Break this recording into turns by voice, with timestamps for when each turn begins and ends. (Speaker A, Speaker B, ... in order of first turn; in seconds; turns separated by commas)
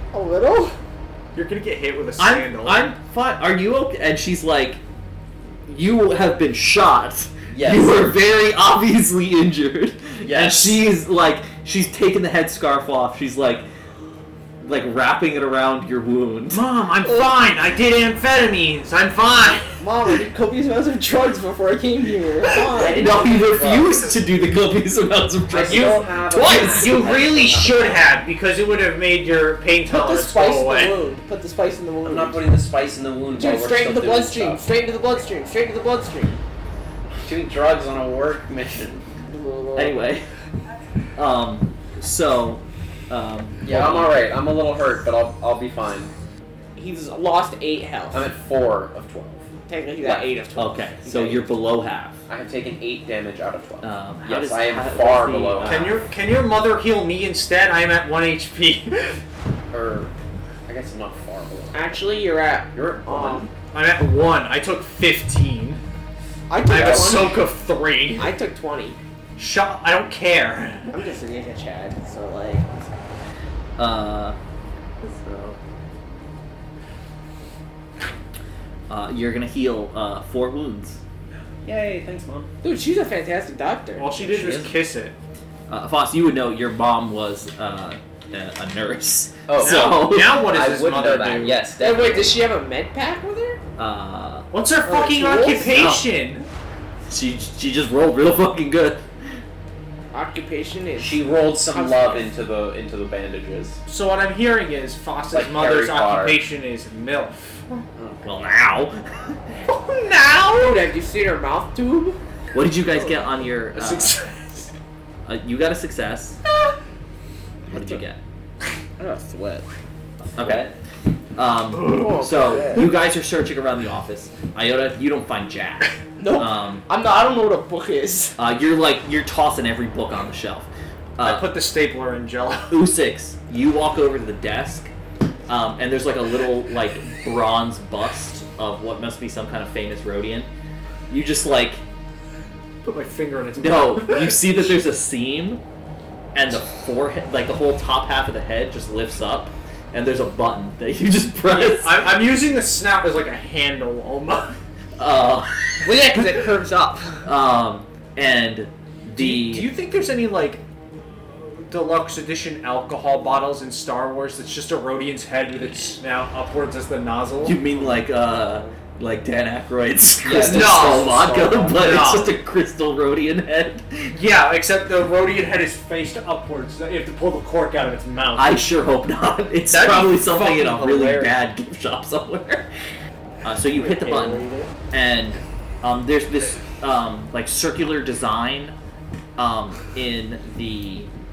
Speaker A: 0.1-0.8, Speaker B: 1.3-2.9, Speaker C: 2.2-4.8, Speaker C: 5.7-13.7, Speaker D: 7.5-8.1, Speaker D: 10.2-10.8, Speaker C: 14.6-16.6, Speaker B: 16.5-19.8, Speaker A: 19.8-23.1, Speaker D: 22.7-24.0, Speaker C: 22.8-26.5, Speaker D: 25.5-28.1, Speaker B: 25.7-31.0, Speaker A: 29.9-32.5, Speaker D: 32.0-34.6, Speaker A: 33.4-36.4, Speaker D: 37.1-39.0, Speaker A: 39.2-40.0, Speaker C: 39.8-40.3, Speaker C: 41.1-44.1, Speaker D: 43.6-46.1, Speaker A: 46.8-48.3, Speaker D: 48.1-49.5, Speaker A: 49.7-51.2, Speaker D: 50.0-50.3, Speaker C: 50.5-52.2, Speaker D: 51.0-51.4, Speaker D: 52.3-55.9, Speaker C: 53.8-55.8, Speaker B: 55.6-59.2, Speaker D: 59.7-60.1, Speaker D: 60.6-62.0, Speaker A: 61.7-63.5, Speaker D: 62.7-63.5, Speaker B: 63.7-65.8, Speaker A: 66.5-67.4, Speaker B: 66.7-68.3, Speaker D: 66.8-67.0, Speaker A: 68.2-69.0, Speaker B: 69.4-70.9, Speaker A: 70.9-72.8, Speaker C: 73.8-74.3, Speaker C: 75.0-75.6, Speaker C: 78.9-81.0, Speaker D: 81.6-82.5, Speaker A: 82.6-84.5, Speaker B: 84.0-85.1, Speaker D: 84.2-84.7, Speaker C: 85.7-90.4, Speaker D: 89.5-92.4, Speaker B: 89.6-91.6, Speaker A: 91.8-93.6, Speaker C: 93.8-94.5, Speaker B: 94.5-96.5, Speaker A: 94.8-95.8, Speaker C: 95.7-96.0, Speaker C: 97.1-99.0, Speaker A: 100.1-102.3, Speaker D: 101.0-103.8, Speaker B: 103.8-107.6, Speaker D: 105.3-106.4, Speaker D: 107.9-108.5, Speaker C: 108.2-109.5, Speaker B: 109.7-110.7, Speaker A: 110.5-112.2, Speaker C: 112.5-114.2, Speaker B: 113.7-114.7, Speaker C: 115.2-116.4, Speaker A: 117.7-118.0, Speaker C: 117.7-118.2, Speaker A: 119.0-119.7, Speaker C: 120.3-120.7, Speaker D: 120.4-120.7, Speaker C: 121.3-126.8, Speaker A: 121.8-122.9, Speaker A: 126.2-128.4, Speaker C: 128.4-131.5, Speaker B: 131.2-132.8, Speaker C: 132.7-134.9, Speaker C: 135.5-140.5, Speaker C: 141.1-141.8, Speaker B: 142.8-144.4, Speaker C: 143.6-145.6, Speaker C: 146.3-152.1, Speaker B: 151.5-154.6, Speaker C: 155.0-156.0, Speaker A: 155.8-157.3, Speaker C: 157.2-159.7, Speaker B: 159.2-160.6, Speaker B: 161.1-168.4, Speaker C: 167.4-174.2, Speaker D: 170.2-172.2, Speaker B: 170.4-171.1, Speaker B: 171.7-172.3, Speaker B: 174.1-178.6, Speaker C: 178.3-182.7, Speaker B: 179.7-181.4, Speaker C: 183.4-188.7, Speaker B: 183.7-184.7, Speaker C: 189.4-191.1